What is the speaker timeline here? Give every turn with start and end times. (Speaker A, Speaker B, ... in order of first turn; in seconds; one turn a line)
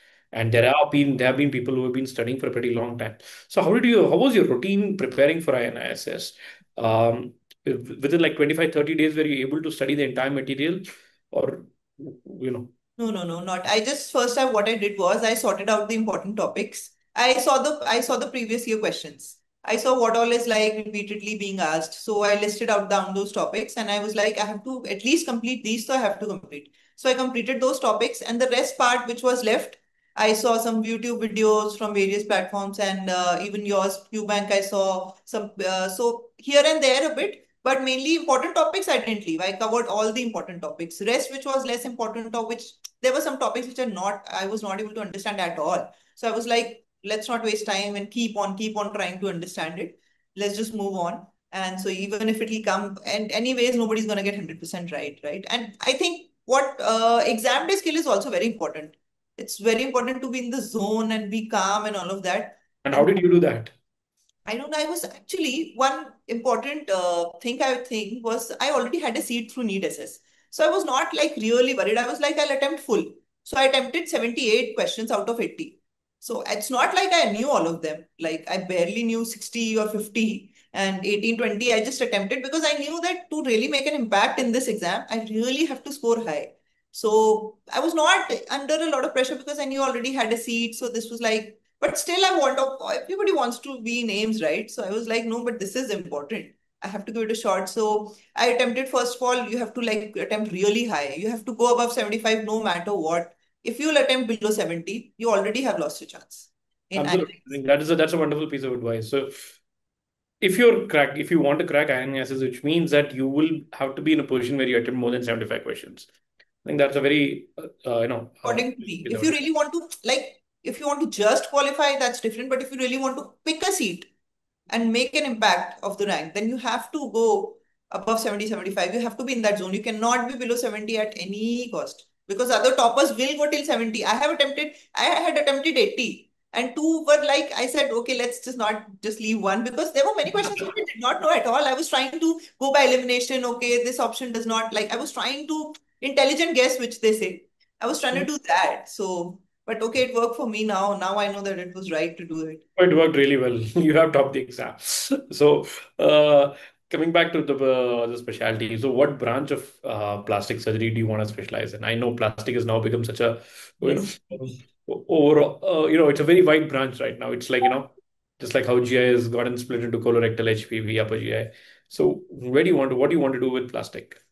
Speaker A: 0.3-12.7
Speaker B: 13.0-63.1
Speaker A: 62.8-63.7
Speaker B: 64.5-107.5
Speaker A: 107.0-109.5
Speaker A: 110.4-116.1
Speaker A: 116.6-119.4
Speaker B: 118.4-124.1
Speaker B: 124.7-152.6
Speaker A: 152.8-174.2